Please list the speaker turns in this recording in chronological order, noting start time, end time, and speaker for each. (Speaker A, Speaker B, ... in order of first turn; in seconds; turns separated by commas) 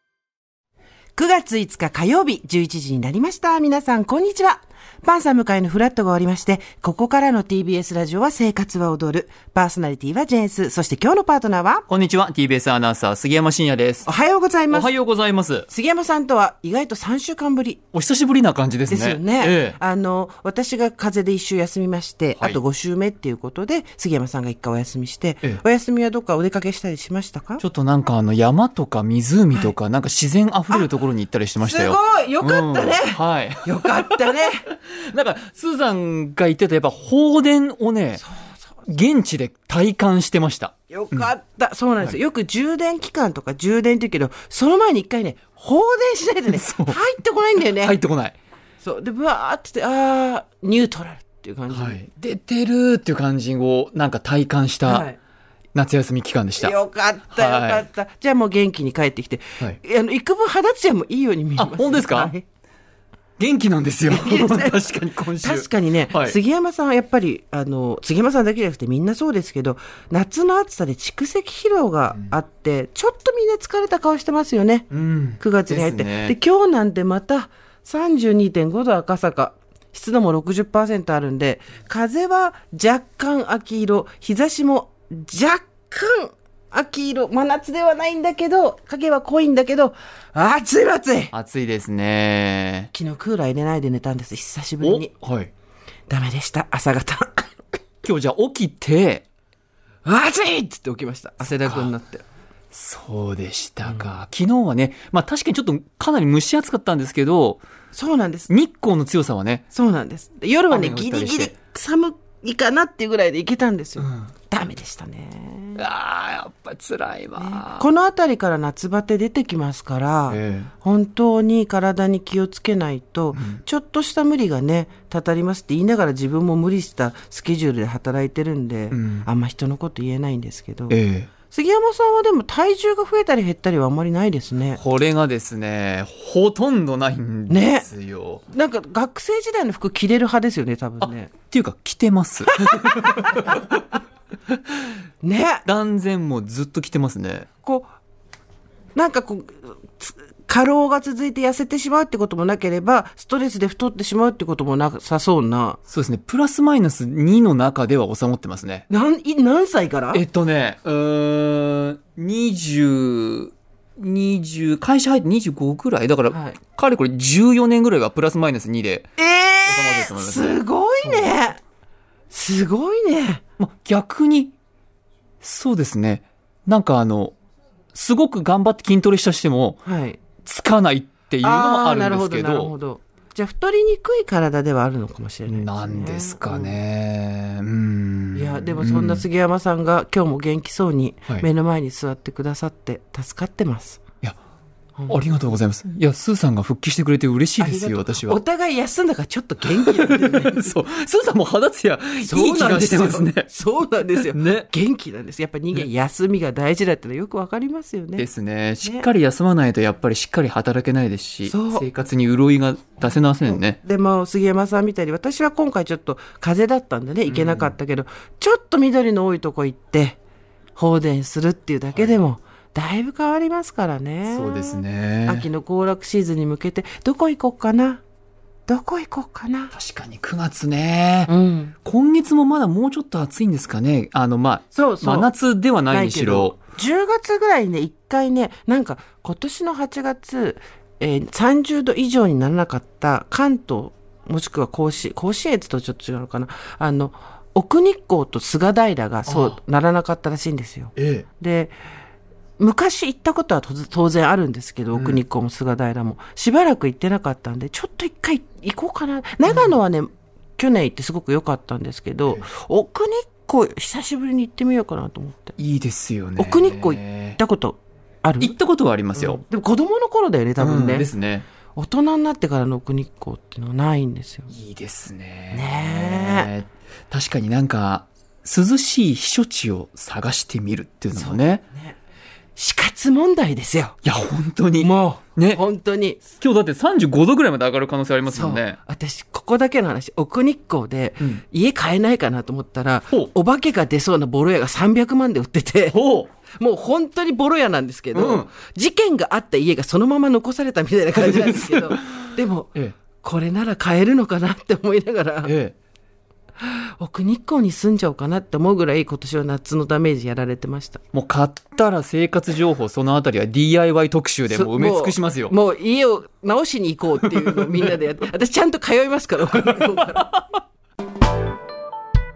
Speaker A: 1.1-11.9, Speaker B: 11.9-14.1, Speaker A: 14.1-14.9, Speaker B: 14.7-15.7, Speaker A: 15.7-17.8, Speaker B: 17.9-19.8, Speaker A: 18.9-27.6, Speaker B: 27.6-38.2, Speaker A: 31.6-34.7, Speaker A: 38.2-38.6, Speaker B: 38.9-41.3, Speaker A: 40.9-48.0, Speaker B: 46.5-47.0, Speaker B: 47.8-48.4, Speaker A: 48.8-52.0, Speaker B: 51.7-55.1, Speaker A: 54.9-55.2, Speaker B: 55.7-56.8, Speaker A: 56.6-62.5, Speaker B: 57.3-57.9, Speaker B: 61.6-62.3, Speaker B: 63.4-66.4, Speaker A: 64.1-74.9, Speaker B: 74.9-76.3, Speaker A: 75.4-91.3, Speaker B: 91.3-92.9, Speaker A: 92.9-95.1, Speaker B: 94.8-95.5, Speaker A: 96.1-97.5, Speaker B: 98.0-99.2, Speaker A: 100.0-102.2, Speaker B: 101.4-101.9, Speaker B: 102.7-107.6, Speaker A: 107.9-108.5, Speaker B: 108.5-109.6, Speaker A: 109.7-115.8, Speaker B: 110.7-111.5, Speaker B: 114.0-114.3, Speaker B: 115.8-117.9, Speaker A: 117.4-134.8, Speaker B: 120.3-120.7, Speaker B: 123.3-123.6, Speaker B: 128.9-129.3, Speaker B: 130.9-131.3, Speaker B: 134.8-138.4, Speaker A: 137.5-137.9, Speaker A: 138.5-141.3, Speaker B: 141.0-143.7, Speaker A: 142.5-143.7, Speaker A: 145.2-145.7, Speaker B: 145.7-147.5, Speaker A: 147.6-147.9, Speaker A: 148.9-155.8, Speaker B: 155.9-158.9, Speaker A: 158.9-160.2, Speaker B: 160.1-169.1, Speaker A: 166.3-166.6, Speaker A: 169.2-171.6, Speaker B: 169.7-171.3, Speaker A: 172.3-173.4, Speaker B: 173.6-174.5, Speaker B: 175.4-177.3, Speaker B: 177.9-179.8, Speaker A: 179.8-180.2, Speaker B: 180.4-182.7, Speaker A: 181.4-186.8, Speaker B: 185.5-189.2, Speaker A: 188.3-194.0, Speaker A: 195.0-195.3, Speaker B: 195.1-198.4, Speaker A: 197.6-200.8, Speaker B: 199.6-203.5, Speaker A: 202.2-208.3, Speaker B: 204.1-204.7, Speaker B: 208.2-213.8, Speaker A: 211.4-211.9, Speaker A: 213.5-220.2, Speaker B: 217.3-217.7, Speaker A: 220.8-228.0, Speaker B: 224.3-225.5, Speaker A: 228.7-229.8, Speaker B: 229.7-231.3, Speaker A: 231.3-231.7, Speaker B: 231.8-236.6, Speaker A: 234.7-235.3, Speaker A: 235.9-251.7, Speaker B: 249.3-249.6, Speaker B: 251.0-251.3, Speaker A: 252.6-265.6, Speaker B: 254.9-255.2, Speaker B: 265.6-267.4, Speaker A: 266.4-268.6, Speaker B: 268.4-269.4, Speaker A: 269.1-271.1, Speaker B: 270.6-271.5, Speaker A: 271.8-274.5, Speaker B: 274.5-281.6, Speaker A: 275.5-276.5, Speaker A: 281.1-282.0, Speaker A: 282.6-284.0, Speaker B: 284.0-285.6, Speaker A: 284.8-286.2, Speaker B: 286.3-288.8, Speaker A: 288.3-296.0, Speaker B: 295.9-296.3, Speaker A: 296.6-305.6, Speaker B: 298.1-298.5, Speaker B: 301.2-302.1, Speaker B: 305.4-305.8, Speaker A: 306.6-311.0, Speaker B: 311.1-315.5, Speaker A: 314.5-320.4, Speaker B: 317.2-317.7